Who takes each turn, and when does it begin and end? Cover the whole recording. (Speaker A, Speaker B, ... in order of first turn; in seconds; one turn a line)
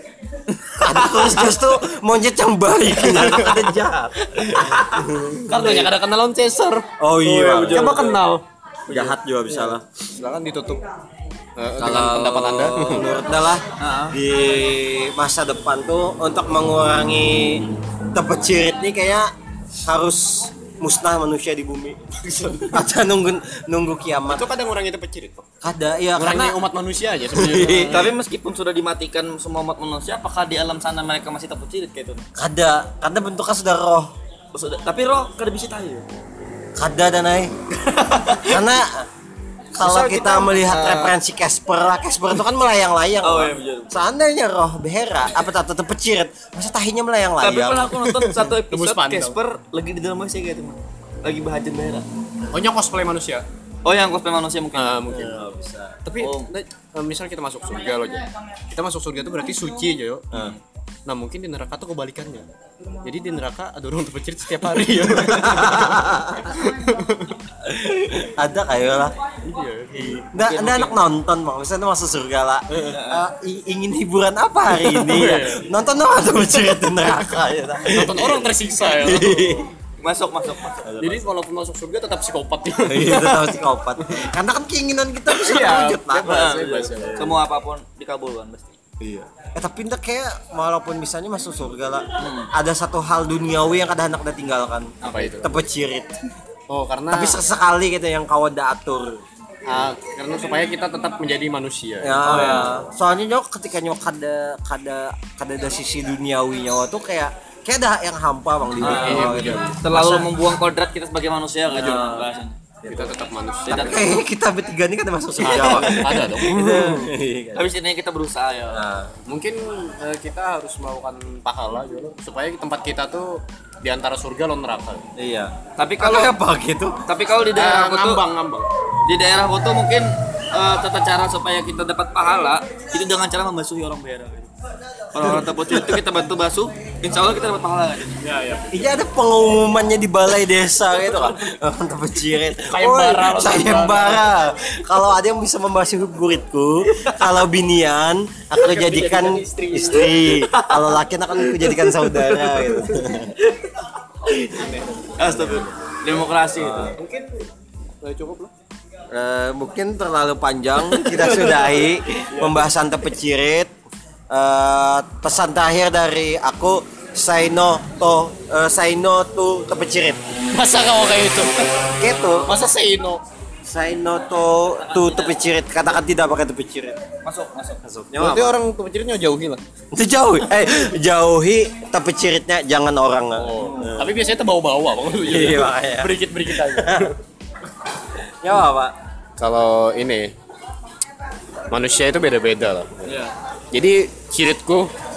Speaker A: 0.5-1.6
Speaker B: 0.8-5.9
Speaker C: 3.1-3.5
Speaker C: 5.4-10.8
Speaker B: 7.0-8.0
Speaker A: 7.4-8.2
Speaker B: 8.9-9.8
Speaker C: 11.6-13.2
Speaker B: 11.8-19.3
Speaker A: 13.8-14.2
Speaker B: 19.8-22.1
Speaker B: 22.7-24.5
Speaker C: 24.2-25.4
Speaker B: 25.6-26.6
Speaker C: 26.1-28.1
Speaker B: 27.3-28.1
Speaker A: 27.9-32.2
Speaker B: 32.4-34.1
Speaker A: 34.5-36.0
Speaker B: 36.8-37.7
Speaker A: 37.9-38.6
Speaker B: 38.3-39.1
Speaker B: 39.7-48.0
Speaker C: 39.8-41.1
Speaker A: 43.2-43.9
Speaker A: 47.4-52.0
Speaker C: 48.0-49.4
Speaker C: 52.5-53.4
Speaker A: 53.8-55.1
Speaker C: 54.7-55.4
Speaker B: 55.1-56.0
Speaker C: 56.0-60.3
Speaker A: 56.2-56.5
Speaker B: 60.3-60.6
Speaker A: 60.3-60.6
Speaker C: 61.1-62.5
Speaker C: 63.0-66.0
Speaker B: 65.2-66.6
Speaker C: 66.6-67.4
Speaker B: 67.6-69.1
Speaker C: 69.4-70.2
Speaker A: 70.2-71.0
Speaker B: 70.2-79.7
Speaker A: 72.9-73.2
Speaker C: 74.7-75.6
Speaker C: 77.8-79.6
Speaker A: 80.0-80.9
Speaker B: 80.8-81.2
Speaker C: 81.0-84.3
Speaker B: 82.8-87.4
Speaker C: 85.3-87.3
Speaker A: 86.2-88.8
Speaker B: 89.0-96.2
Speaker A: 92.2-92.5
Speaker C: 95.0-95.5
Speaker C: 96.7-97.4
Speaker B: 97.1-99.2
Speaker C: 99.7-102.7
Speaker B: 102.0-110.3
Speaker A: 102.2-102.7
Speaker C: 108.8-109.8
Speaker A: 108.8-112.6
Speaker B: 111.7-112.3
Speaker B: 112.8-113.1
Speaker C: 112.9-114.1
Speaker A: 113.7-114.2
Speaker B: 113.7-117.7
Speaker C: 115.4-117.0
Speaker A: 115.5-116.1
Speaker A: 117.5-118.8
Speaker B: 118.7-119.1
Speaker C: 119.3-125.1
Speaker B: 125.2-127.0
Speaker A: 125.8-126.4
Speaker A: 127.1-128.2
Speaker C: 127.5-128.7
Speaker A: 129.0-134.5
Speaker A: 135.1-138.2
Speaker C: 138.2-138.8
Speaker B: 138.7-153.3
Speaker C: 142.6-144.3
Speaker C: 148.6-150.3
Speaker A: 150.4-153.1
Speaker C: 154.3-155.2
Speaker A: 155.2-156.9
Speaker B: 155.2-155.7
Speaker B: 156.5-157.0
Speaker C: 156.9-157.4
Speaker C: 158.0-158.5
Speaker B: 159.1-163.7
Speaker A: 160.9-161.7
Speaker C: 162.3-162.7
Speaker B: 164.3-170.2
Speaker C: 170.5-171.7
Speaker B: 172.0-172.6
Speaker C: 172.5-173.2
Speaker B: 173.6-177.0
Speaker A: 174.8-175.3
Speaker A: 177.2-177.8
Speaker B: 177.8-178.6
Speaker C: 178.2-179.6
Speaker B: 179.9-184.1
Speaker C: 183.3-187.2
Speaker B: 185.2-187.1
Speaker B: 188.4-188.9
Speaker C: 189.4-190.3
Speaker C: 191.7-193.1
Speaker A: 193.0-193.3
Speaker C: 193.7-194.9